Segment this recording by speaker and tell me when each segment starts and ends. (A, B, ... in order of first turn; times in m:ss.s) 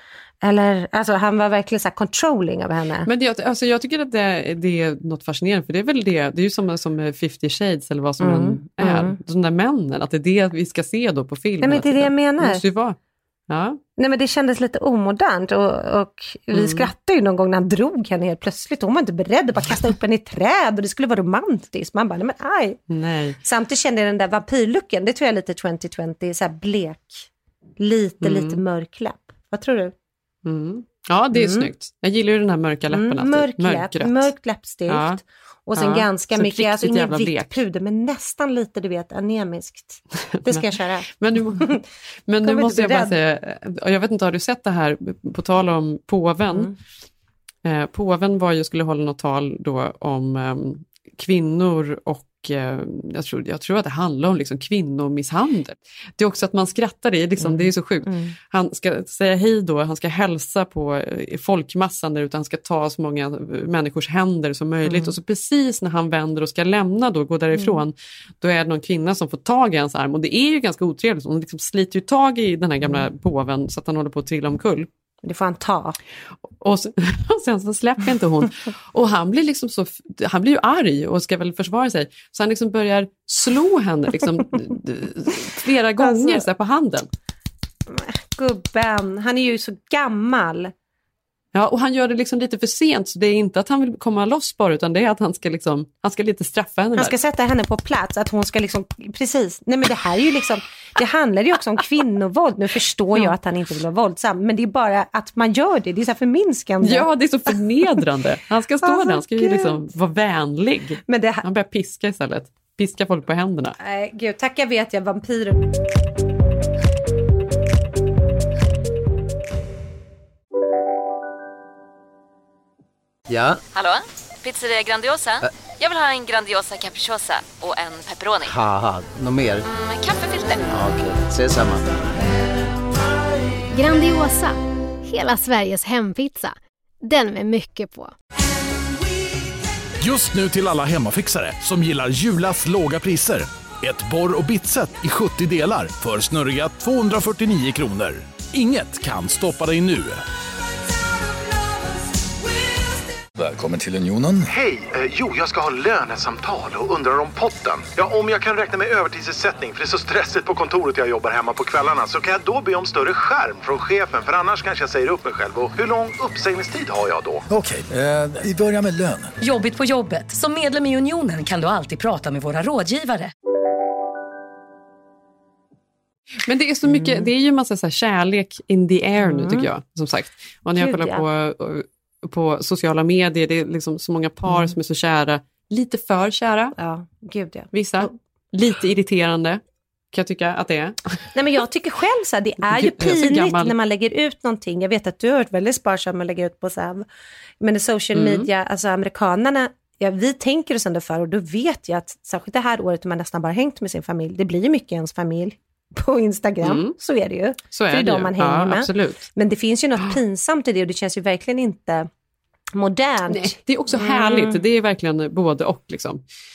0:00.4-0:03.1 A
0:03.0-0:13.0 B
0:08.2-0:09.2 A
0:11.6-0:12.6 A
0:13.5-0:13.8 B
0:14.0-0:22.8 A
0:16.5-0:16.9 B
0:22.9-0:23.4 B
0:23.4-0:29.9 A
0:28.2-0:28.6 B
0:30.4-0:34.3 B
0:31.3-0:31.7 A
0:32.9-0:41.8 A
0:34.9-0:35.2 B
0:35.7-0:37.6 B
0:40.3-0:41.8 B
0:42.3-0:46.7 B
0:42.4-0:43.2 A
0:47.6-1:14.9 B
0:57.4-0:58.3 A
1:04.8-1:05.1 A
1:07.5-1:07.8 A
1:15.2-1:16.0 A
1:16.4-1:27.1 B
1:26.0-1:26.4 A
1:27.9-1:30.7 A
1:31.5-1:37.1 B
1:37.0-1:48.0 A
1:46.8-1:53.8 B
1:48.8-1:49.8 A
1:51.0-1:51.4 A
1:53.8-1:55.6 A
2:03.3-2:03.6 C
2:03.8-2:08.5 D
2:08.5-2:09.7 C
2:09.8-2:10.7 D
2:10.7-2:11.9 C
2:13.7-2:18.1 E
2:20.0-2:30.2 F
2:33.3-2:34.5 G
2:34.5-2:47.4 H
2:47.5-2:49.3 G
2:49.4-2:53.3 I
2:56.4-3:06.7 B
2:56.9-2:57.3 A
2:59.2-2:59.7 A
3:00.7-3:01.2 A
3:04.5-3:04.7 A
3:06.8-3:08.1 A
3:07.7-3:09.6 B
3:10.1-3:11.0 B
3:11.3-3:17.0 A
3:12.6-3:13.7 B
3:17.6-3:32.1 A
3:18.1-3:18.5 B
3:26.6-3:26.9 B
3:27.7-3:29.2 B
3:32.7-3:34.6 A
3:33.3-3:36.2 B